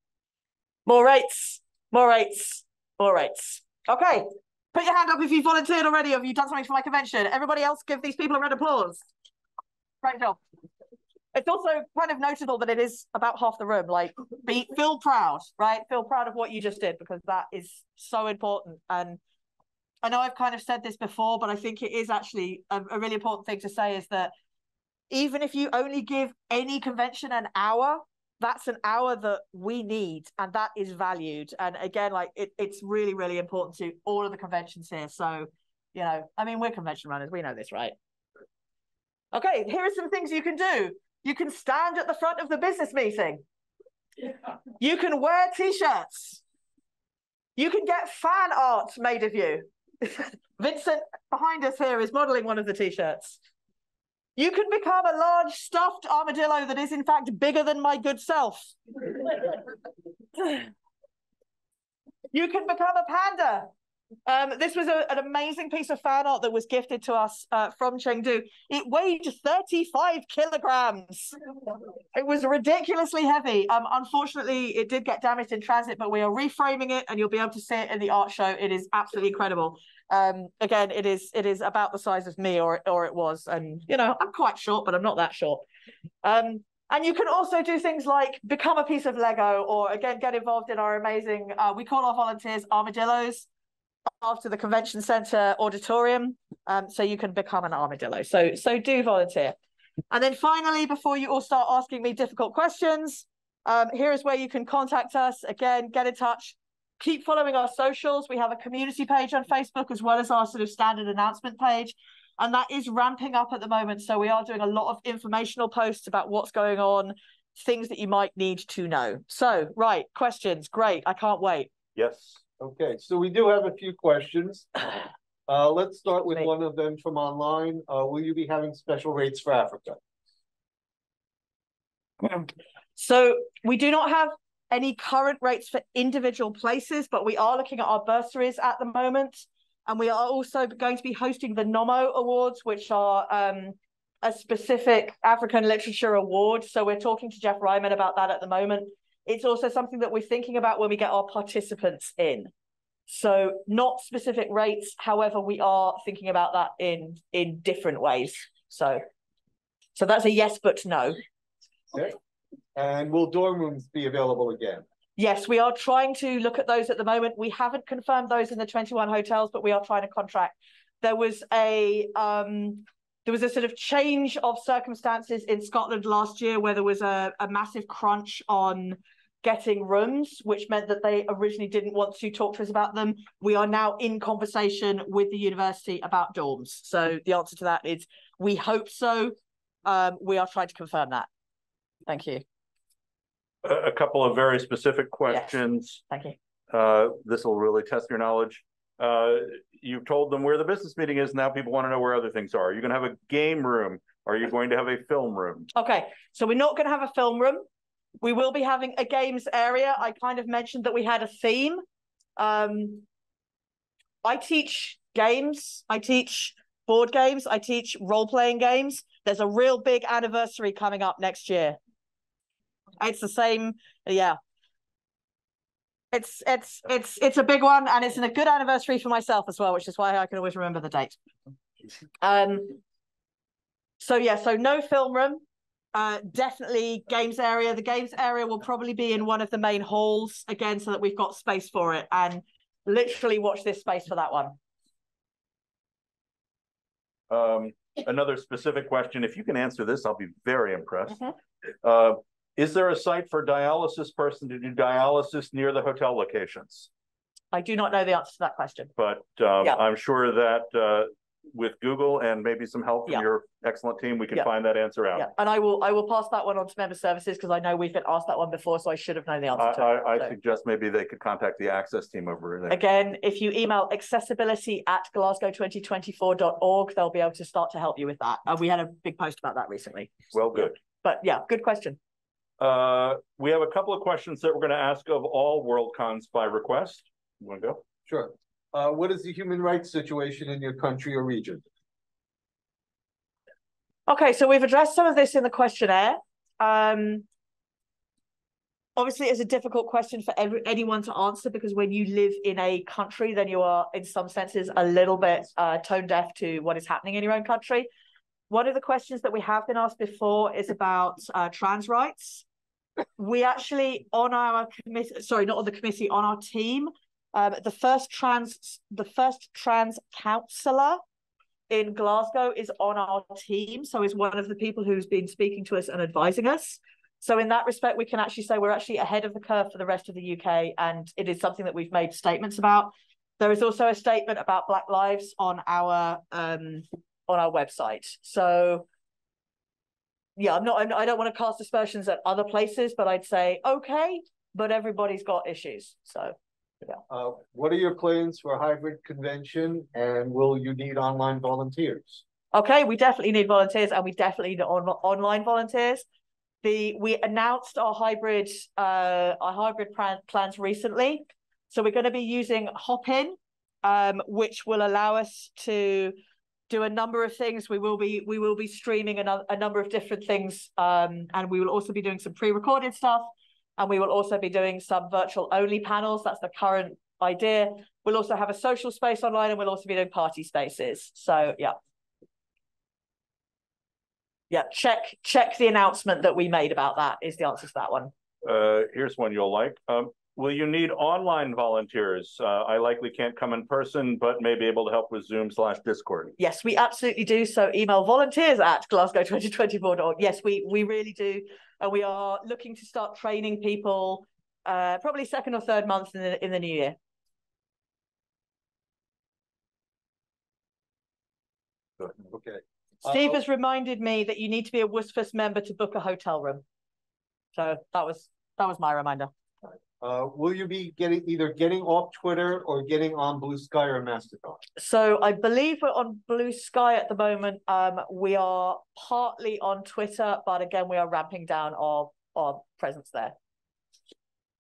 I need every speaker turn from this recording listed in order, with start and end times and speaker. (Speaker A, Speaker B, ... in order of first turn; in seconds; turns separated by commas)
Speaker A: 0.8-9.0, Speaker A: 10.0-10.4, Speaker A: 11.3-19.2, Speaker A: 20.0-24.3, Speaker A: 25.1-37.9, Speaker A: 39.3-43.4, Speaker A: 44.8-46.4, Speaker A: 47.5-53.4, Speaker A: 54.4-59.6, Speaker A: 60.4-60.7, Speaker A: 62.3-63.7, Speaker A: 64.2-71.3, Speaker A: 72.1-85.6, Speaker A: 86.2-93.5, Speaker A: 94.2-99.6, Speaker A: 100.1-121.7, Speaker B: 122.0-122.4, Speaker C: 122.6-124.8, Speaker C: 125.5-130.0, Speaker A: 132.2-152.5, Speaker A: 153.1-159.0, Speaker A: 159.9-161.2, Speaker C: 162.8-164.8, Speaker A: 165.2-191.3, Speaker A: 192.1-192.4, Speaker B: 193.6-196.0, Speaker A: 195.3-195.6, Speaker A: 196.1-196.3, Speaker B: 196.7-205.7, Speaker A: 205.7-207.6, Speaker A: 208.2-211.8, Speaker A: 212.4-213.0, Speaker A: 214.2-221.8, Speaker A: 223.0-224.4, Speaker A: 226.1-231.2, Speaker A: 232.2-232.8, Speaker A: 234.0-235.4, Speaker A: 235.9-244.6, Speaker B: 247.3-251.3, Speaker B: 251.8-256.9, Speaker A: 257.5-258.9, Speaker B: 259.0-265.3, Speaker A: 265.1-270.3, Speaker B: 269.6-272.8, Speaker A: 272.7-280.1, Speaker B: 280.3-280.8, Speaker A: 281.0-282.0, Speaker B: 282.6-287.8, Speaker C: 288.1-291.6, Speaker A: 294.1-297.2, Speaker A: 298.9-307.9, Speaker A: 308.5-312.4, Speaker A: 313.2-321.0, Speaker A: 321.7-338.9, Speaker A: 340.4-347.0, Speaker C: 347.1-352.2, Speaker A: 352.5-356.1, Speaker A: 356.6-366.1, Speaker A: 366.7-381.8, Speaker A: 384.5-388.1, Speaker B: 388.4-396.3, Speaker A: 396.4-407.0, Speaker C: 412.1-413.4, Speaker A: 413.0-416.6, Speaker A: 417.5-419.3, Speaker C: 420.0-424.6, Speaker A: 424.8-433.3